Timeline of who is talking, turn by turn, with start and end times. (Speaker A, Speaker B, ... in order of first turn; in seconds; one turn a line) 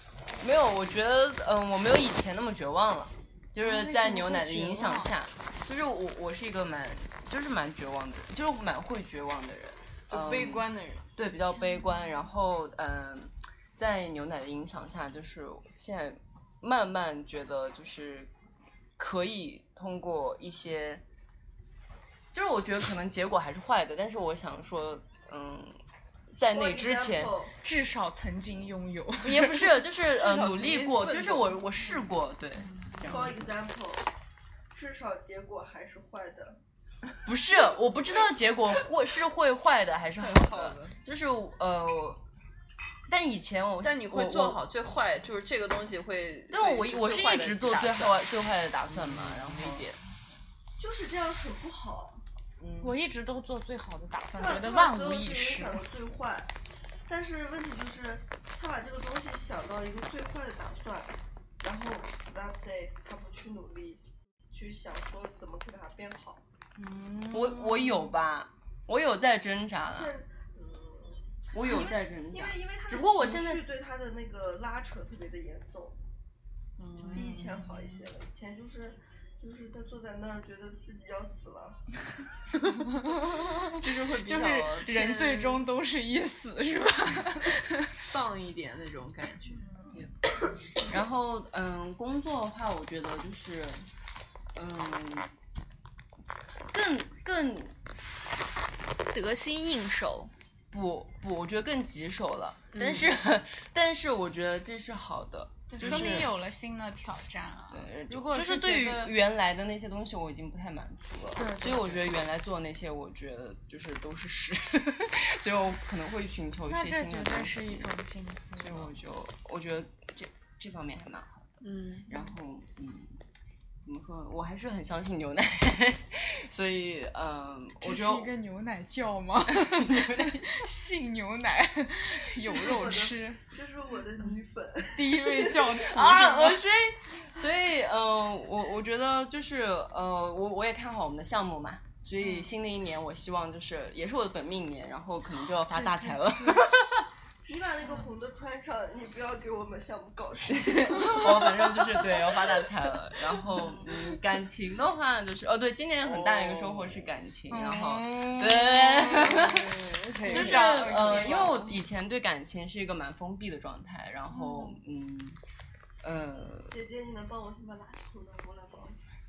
Speaker A: 0.4-18.3
Speaker B: 3.6-5.1
Speaker C: 10.1-11.1
Speaker B: 11.5-12.3
Speaker A: 19.0-21.0
Speaker A: 22.3-25.8
Speaker A: 26.3-27.3
Speaker D: 26.5-27.6
Speaker B: 27.6-30.8
Speaker A: 29.2-33.5
Speaker C: 30.2-31.6
Speaker B: 32.6-33.1
Speaker D: 33.0-34.1
Speaker D: 34.7-36.6
Speaker A: 37.2-42.2
Speaker C: 40.2-41.0
Speaker A: 43.1-44.6
Speaker C: 43.8-48.2
Speaker A: 46.5-50.0
Speaker C: 48.9-49.9
Speaker D: 50.8-52.2
Speaker C: 52.6-53.0
Speaker B: 52.8-55.8
Speaker D: 54.4-56.5
Speaker D: 57.1-66.4
Speaker B: 66.8-68.1
Speaker A: 67.3-70.2
Speaker D: 69.8-76.0
Speaker A: 71.5-73.7
Speaker C: 76.8-77.6
Speaker D: 77.1-81.8
Speaker B: 82.7-88.1
Speaker C: 83.8-85.6
Speaker A: 84.0-84.8
Speaker C: 88.0-90.2
Speaker A: 90.8-93.8
Speaker A: 94.5-95.3
Speaker A: 96.7-97.8
Speaker E: 99.1-100.3
Speaker A: 100.7-106.3
Speaker E: 102.7-103.1
Speaker B: 105.7-109.1
Speaker C: 105.8-106.3
Speaker A: 107.7-117.9
Speaker B: 111.4-112.0
Speaker B: 116.7-118.9
Speaker A: 118.6-123.2
Speaker E: 121.6-122.1
Speaker A: 123.8-128.3
Speaker B: 127.8-133.4
Speaker A: 129.5-130.7
Speaker D: 132.4-135.4
Speaker B: 134.9-136.6
Speaker A: 135.8-147.1
Speaker B: 142.2-142.5
Speaker E: 145.8-146.3
Speaker B: 145.8-146.6
Speaker D: 147.5-151.8
Speaker B: 147.8-148.1
Speaker A: 150.6-165.4
Speaker C: 156.0-157.1
Speaker B: 157.5-161.6
Speaker C: 159.3-161.8
Speaker B: 164.3-164.8
Speaker A: 166.0-166.8
Speaker D: 166.7-169.0